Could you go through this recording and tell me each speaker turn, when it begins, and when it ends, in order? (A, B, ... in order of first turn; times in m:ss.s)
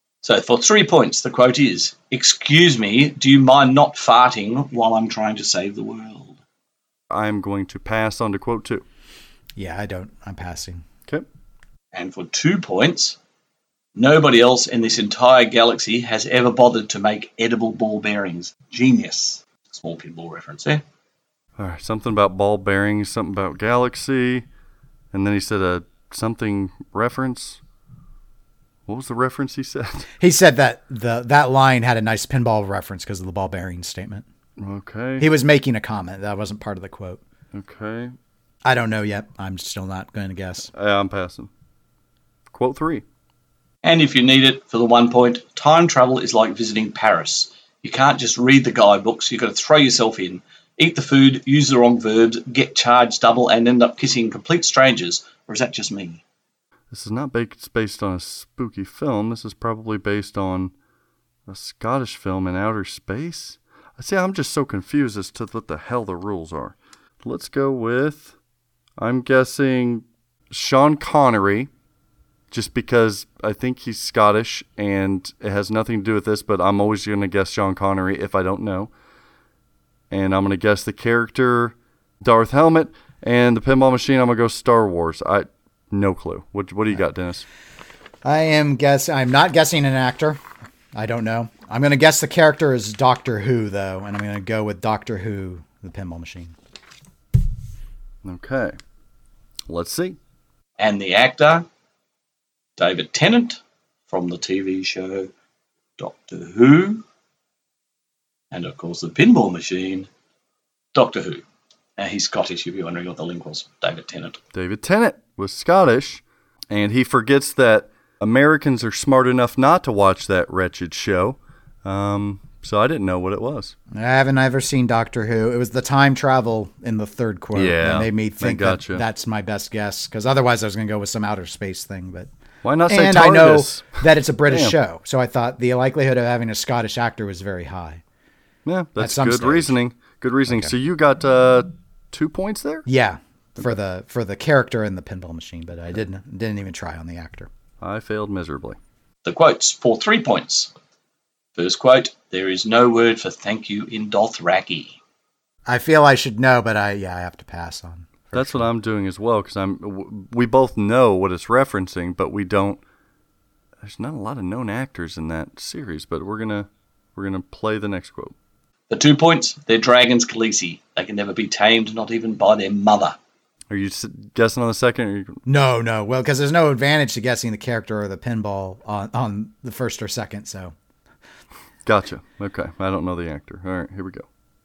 0:00.2-0:06.4 A
0:07.1-0:08.8 B
0:09.6-0:10.8 C
0:11.9-0:13.2 A
0:13.9-0:20.8 A
0:21.6-0:24.4 B
0:25.1-0:27.6 B
0:28.9-0:30.1 B
0:30.2-0:34.2 C
0:34.6-0:35.3 B
0:35.2-0:37.2 C
0:37.5-0:38.1 B
0:38.6-0:40.7 C
0:40.7-0:41.5 B
0:42.5-0:43.0 B
0:43.8-0:56.2 A
0:56.9-1:00.7 B
1:01.5-1:08.3 B
1:09.0-1:11.7 B
1:12.5-1:18.9 B
1:20.1-1:27.4 B
1:28.2-1:30.4 C
1:30.9-1:36.5 C
1:38.2-1:38.8 B
1:39.7-1:40.2 B
1:40.8-1:41.6 A
1:42.8-1:45.3 A
1:46.0-1:47.0 A
1:48.5-1:50.1 A
1:50.9-1:51.4 A
1:52.0-1:54.4 A
1:54.5-2:03.8 B
2:03.9-2:12.3 C
2:07.5-2:09.0 B
2:12.6-2:14.8 B
2:12.9-2:18.0 C
2:18.6-2:22.8 B
2:19.0-2:19.8 C
2:22.9-2:27.5 C
2:27.8-2:28.8 B
2:29.2-2:30.7 A
2:31.6-2:35.0 A
2:35.7-2:38.7 C
2:38.3-2:42.8 B
2:43.8-2:48.3 B
2:48.9-2:53.2 A
2:53.7-2:55.4 B
2:55.4-3:00.7 C
3:01.8-3:04.2 B